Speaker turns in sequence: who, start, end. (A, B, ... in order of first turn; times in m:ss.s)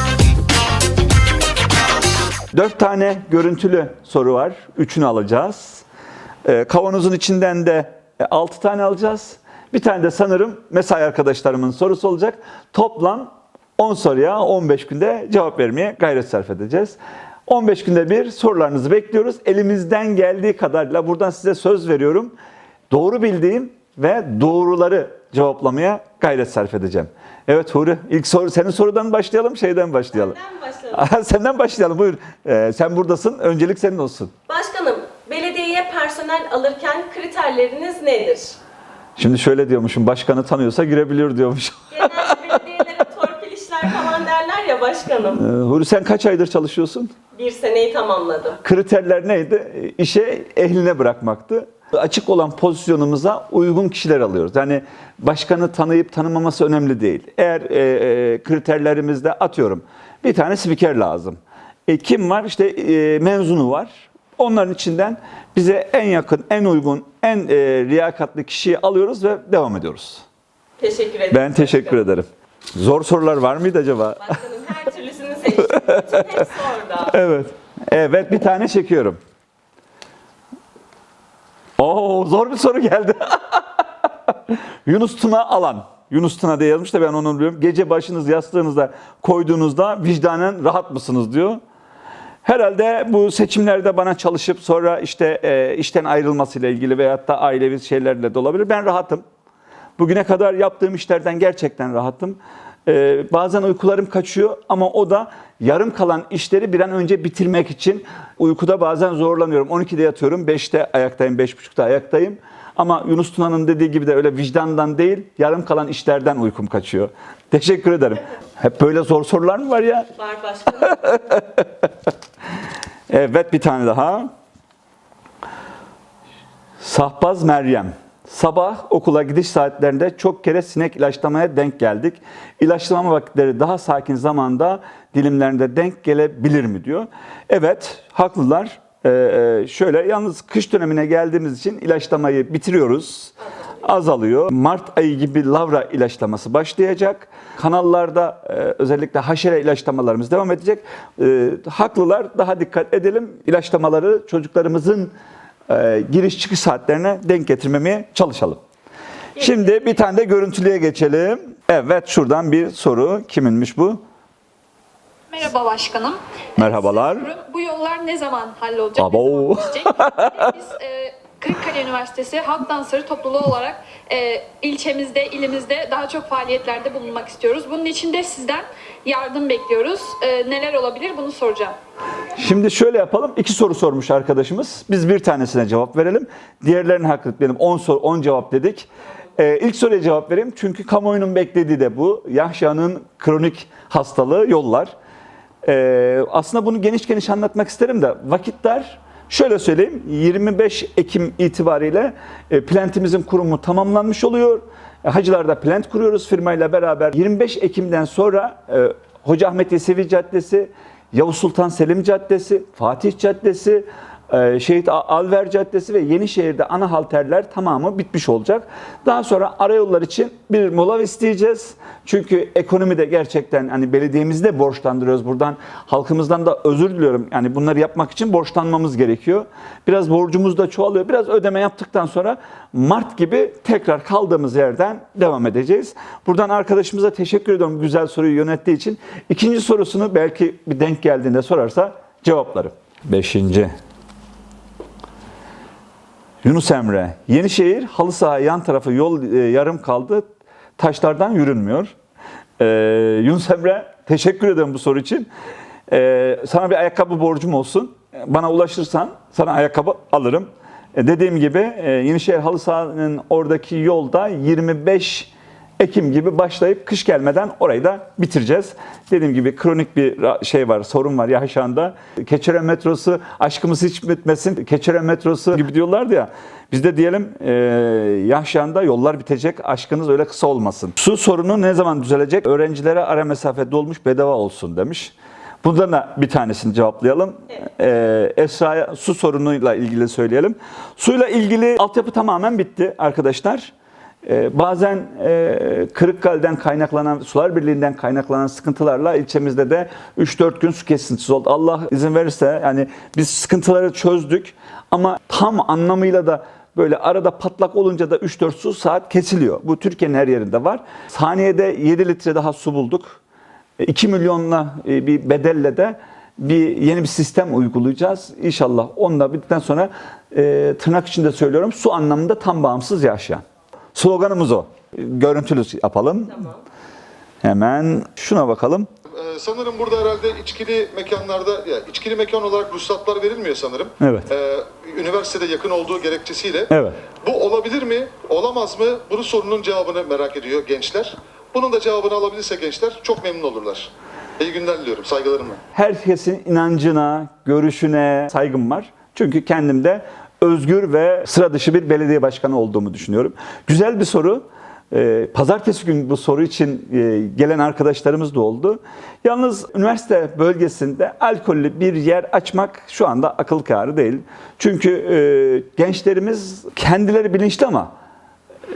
0:02.5-0:05.8 A
0:06.4-0:22.3 A
0:22.9-0:30.4 A
0:30.1-0:31.1 B
0:30.9-0:34.3 A
0:34.5-0:38.6 B
0:39.2-0:42.5 A
0:41.9-0:45.4 B
0:45.3-0:47.1 A
0:47.3-0:48.6 B
0:48.6-1:10.2 A
1:10.8-1:12.0 B
1:11.3-1:14.3 A
1:14.2-1:17.1 B
1:17.1-1:19.2 A
1:21.8-1:31.6 A
1:32.4-1:39.2 A
1:40.0-2:00.1 A
2:00.1-2:01.1 B
2:01.0-2:01.6 A
2:03.1-2:04.3 A
2:06.8-2:35.1 A
2:35.7-2:38.6 A
2:39.4-2:39.9 B
2:39.4-2:44.0 A
2:45.3-3:01.8 C
2:46.6-2:47.3 A
2:49.0-2:50.4 A
3:02.3-3:14.9 A
3:15.6-4:03.7 A
4:06.4-4:11.9 A
4:12.6-4:15.3 A
4:15.9-4:53.7 A
4:54.2-5:13.2 A
5:13.8-5:23.4 A
5:23.9-5:26.5 A
5:27.4-5:28.9 A
5:29.2-5:36.7 D
5:34.0-5:34.3 A
5:36.7-5:37.0 A
5:37.2-5:43.9 D
5:44.4-5:45.6 D
5:45.7-6:07.9 A